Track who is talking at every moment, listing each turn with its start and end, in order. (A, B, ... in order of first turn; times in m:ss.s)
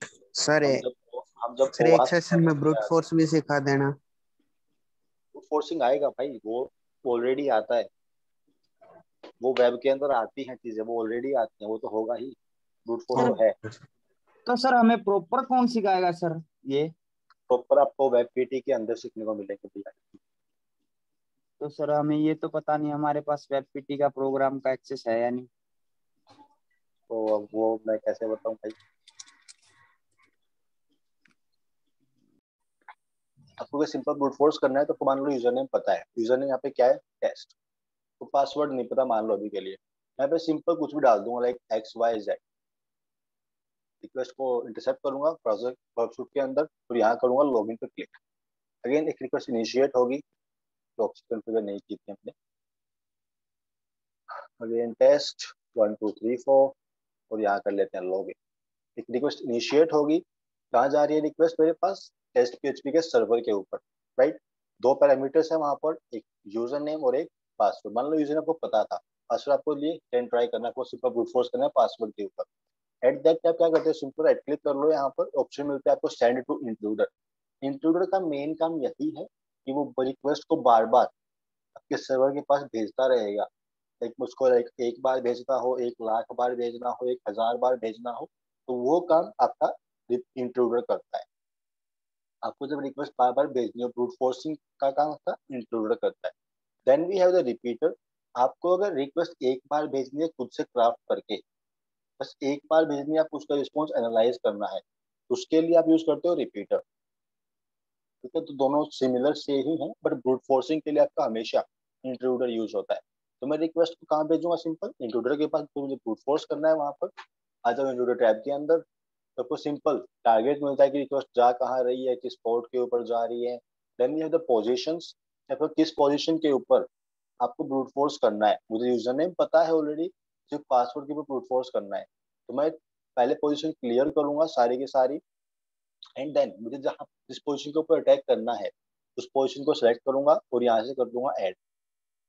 0:00.4-0:00.8 A
0:00.6-0:03.0 B
0:01.8-0:03.9 A
0:05.3-0:07.9 B
0:09.4-0:13.6 B
0:14.4-0:16.9 C
0:17.5-0:20.2 B
0:21.6-0:25.5 C
0:27.1-0:28.8 B
0:33.6-0:37.5 B
0:38.2-0:42.4 B
0:44.0-0:48.2 B
0:48.8-0:50.2 B
0:51.0-0:52.3 B
0:54.6-0:56.7 B
0:57.3-0:58.3 B
0:59.0-1:12.5 B
1:13.0-1:17.1 B
1:17.6-1:21.1 B
1:21.8-1:23.5 B
1:24.0-1:31.2 B
1:32.4-1:36.3 B
1:36.9-1:41.4 B
1:42.2-1:46.8 B
1:48.2-1:57.1 B
1:57.6-1:58.8 B
1:59.4-2:06.9 B
2:07.4-2:15.2 B
2:16.2-2:21.6 B